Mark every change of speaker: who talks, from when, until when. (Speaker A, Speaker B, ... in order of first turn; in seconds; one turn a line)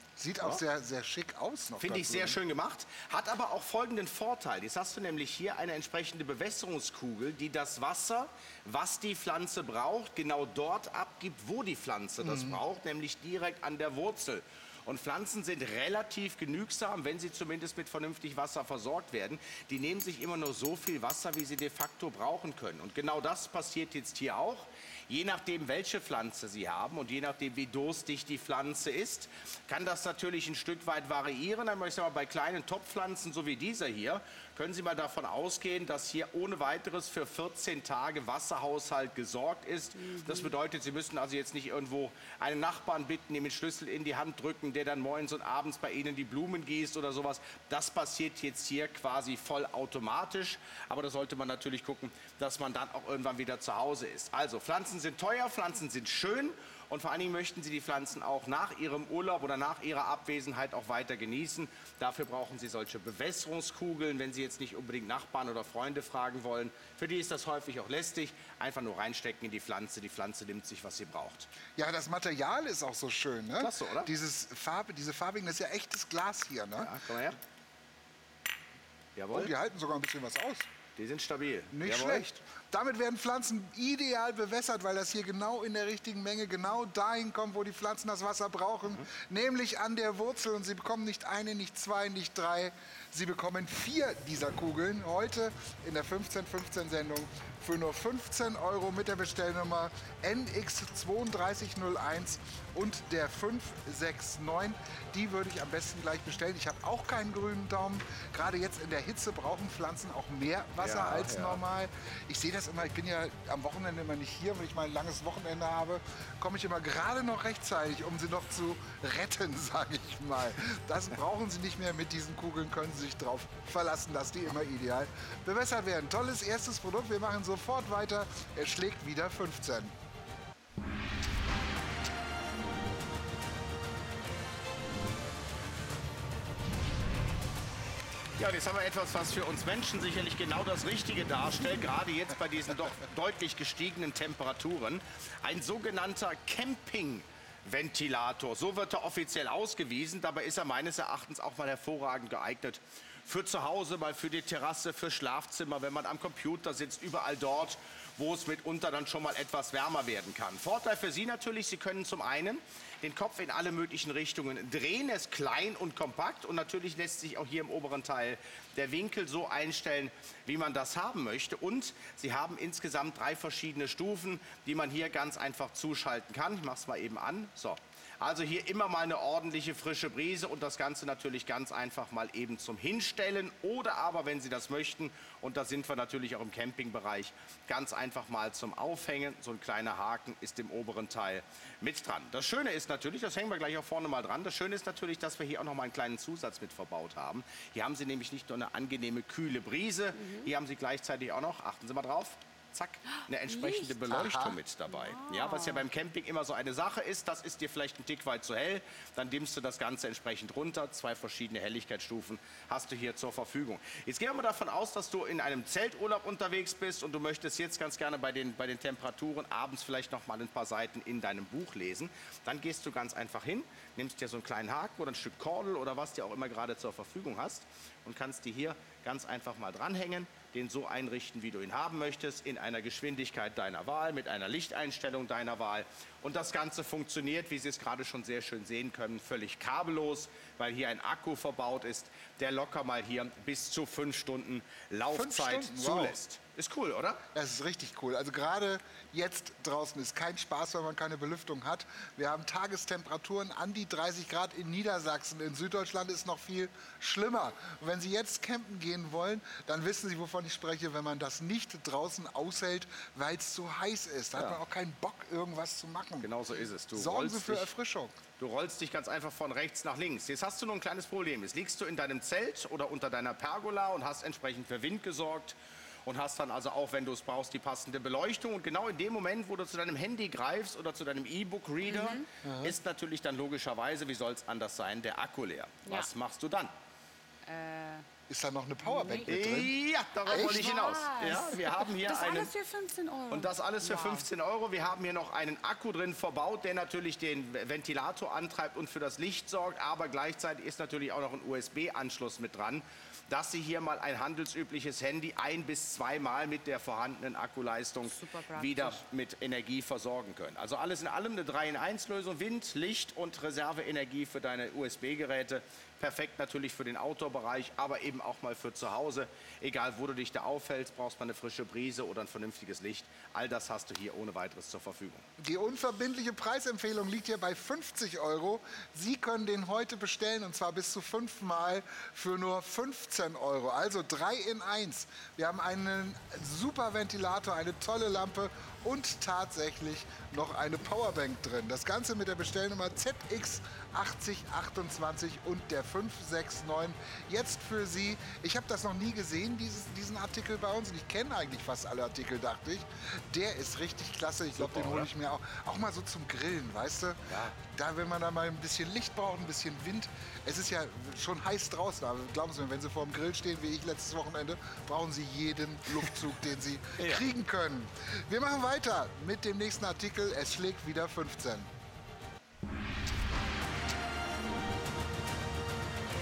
Speaker A: 0.2-2.4
Speaker B: 1.8-71.5
Speaker A: 12.2-12.6
Speaker C: 40.0-40.5
Speaker A: 71.8-76.9
Speaker B: 73.6-74.1
Speaker B: 76.8-77.4
Speaker B: 79.2-79.5
Speaker A: 79.3-80.7
Speaker B: 81.0-82.3
Speaker A: 81.7-130.0
Speaker B: 110.8-111.6
Speaker B: 138.4-247.2
Speaker C: 200.2-200.5
Speaker C: 203.5-204.0
Speaker A: 204.1-204.6
Speaker C: 204.9-205.9
Speaker A: 245.1-246.2
Speaker A: 247.3-266.3
Speaker B: 266.2-267.7
Speaker A: 266.9-268.2
Speaker B: 268.4-286.7
Speaker C: 281.8-282.3
Speaker A: 282.4-282.8
Speaker C: 287.4-288.1
Speaker A: 288.3-289.7
Speaker C: 288.8-289.7
Speaker B: 289.3-292.5
Speaker C: 290.3-294.3
Speaker A: 290.3-290.8
Speaker B: 293.3-325.3
Speaker C: 308.1-309.0
Speaker A: 325.4-371.7
Speaker B: 354.6-355.1
Speaker B: 357.3-357.6
Speaker B: 367.0-367.2